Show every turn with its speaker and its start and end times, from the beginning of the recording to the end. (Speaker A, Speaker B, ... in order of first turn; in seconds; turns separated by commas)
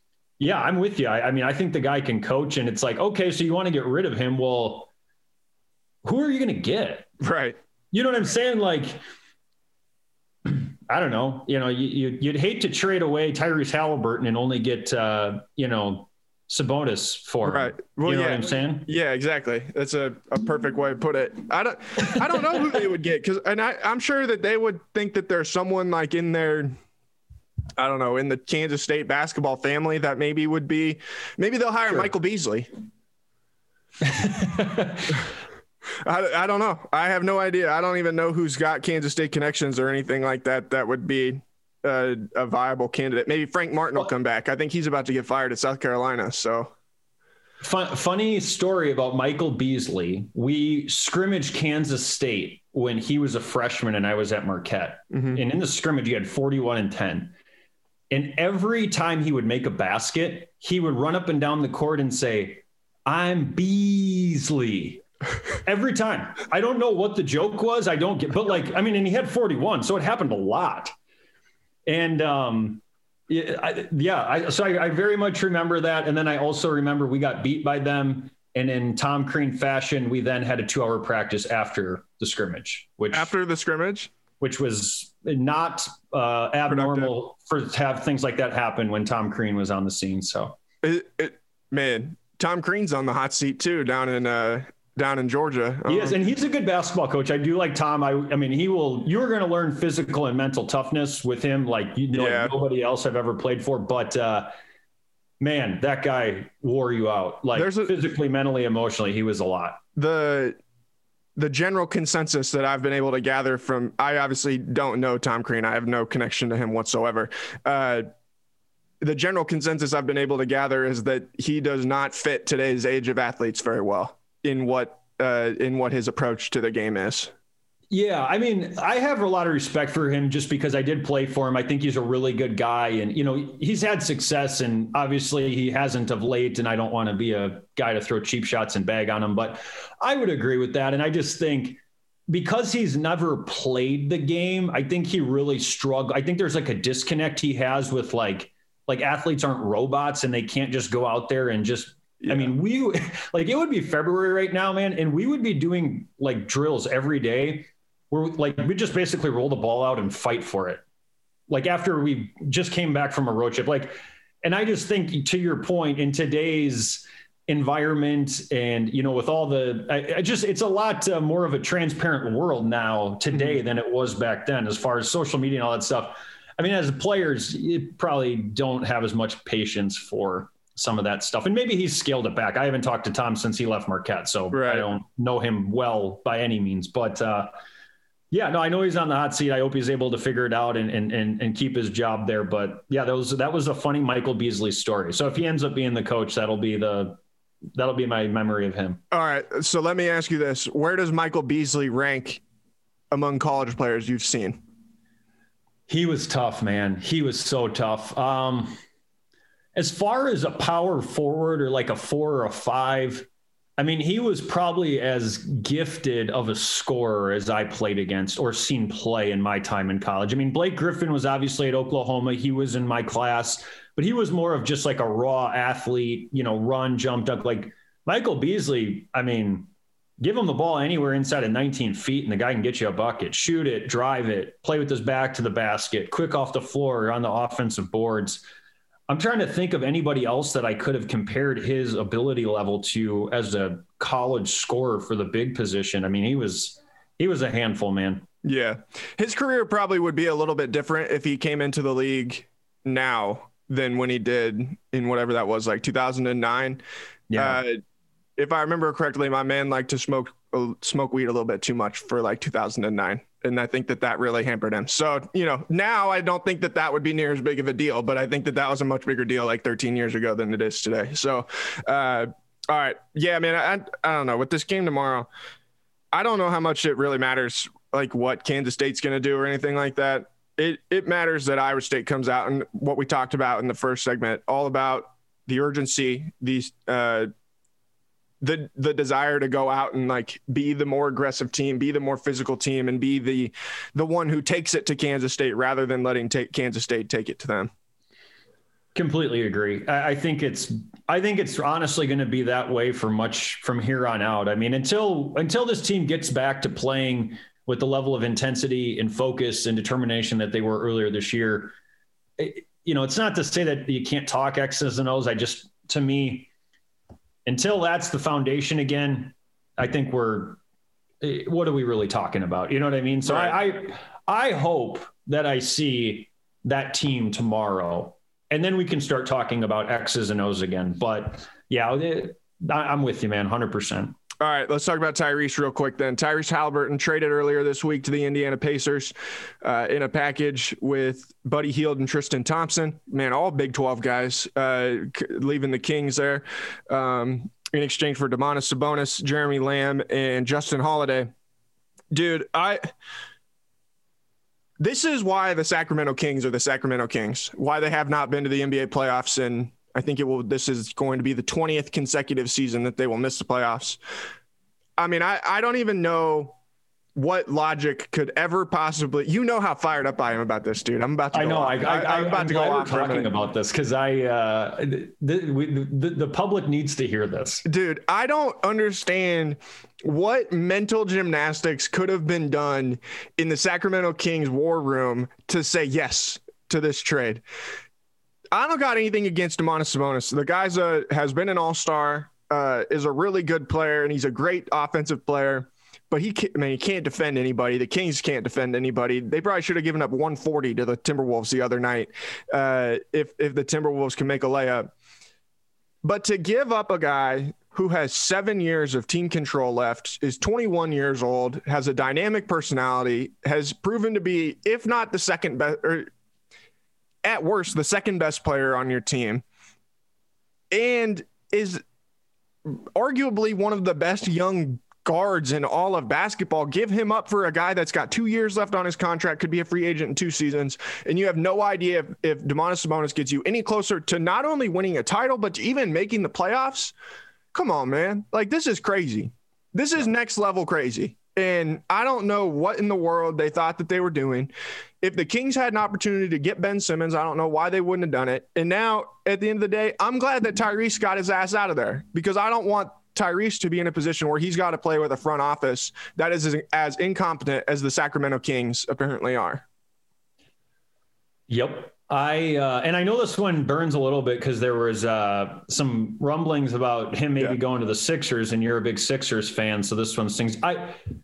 Speaker A: 0.4-4.9, Speaker A: 6.0-7.1, Speaker B: 7.2-7.6, Speaker A: 7.9-9.0, Speaker A: 10.4-18.9, Speaker B: 17.4-26.8, Speaker B: 27.8-32.7, Speaker A: 34.0-35.3, Speaker B: 36.0-46.7, Speaker A: 47.6-57.3, Speaker B: 55.1-55.4, Speaker A: 58.1-65.0, Speaker A: 65.6-70.9, Speaker A: 71.9-83.3, Speaker B: 83.1-84.1, Speaker A: 84.4-90.6, Speaker B: 86.7-87.1, Speaker B: 90.8-96.2, Speaker A: 95.9-104.5, Speaker B: 102.1-102.5, Speaker A: 105.4-109.8, Speaker B: 107.5-108.0, Speaker B: 110.0-110.6, Speaker B: 111.4-118.1, Speaker B: 119.0-127.3, Speaker A: 127.9-160.8, Speaker B: 152.2-152.5, Speaker A: 161.5-187.5, Speaker B: 173.3-173.6, Speaker B: 184.5-184.9, Speaker A: 188.3-197.2, Speaker A: 197.8-199.0, Speaker B: 199.1-202.4, Speaker B: 203.1-204.6, Speaker A: 205.9-208.8, Speaker A: 209.8-213.3, Speaker A: 213.8-238.4, Speaker A: 239.1-248.3, Speaker B: 248.4-256.8, Speaker A: 257.3-257.6, Speaker B: 257.4-257.8, Speaker B: 258.4-275.3, Speaker B: 276.1-287.3, Speaker B: 288.4-297.7, Speaker A: 298.9-311.7, Speaker A: 312.4-316.5, Speaker A: 317.4-320.6, Speaker A: 321.2-334.1, Speaker B: 323.2-323.6, Speaker B: 334.4-351.3, Speaker B: 352.1-352.9, Speaker B: 354.8-364.0, Speaker B: 365.0-366.6, Speaker B: 367.1-373.3, Speaker A: 371.3-377.6, Speaker B: 377.6-387.4, Speaker B: 388.5-404.9, Speaker B: 406.0-416.1, Speaker B: 417.2-419.4, Speaker B: 420.7-421.8, Speaker B: 422.6-436.9, Speaker B: 437.5-459.6, Speaker A: 461.5-471.0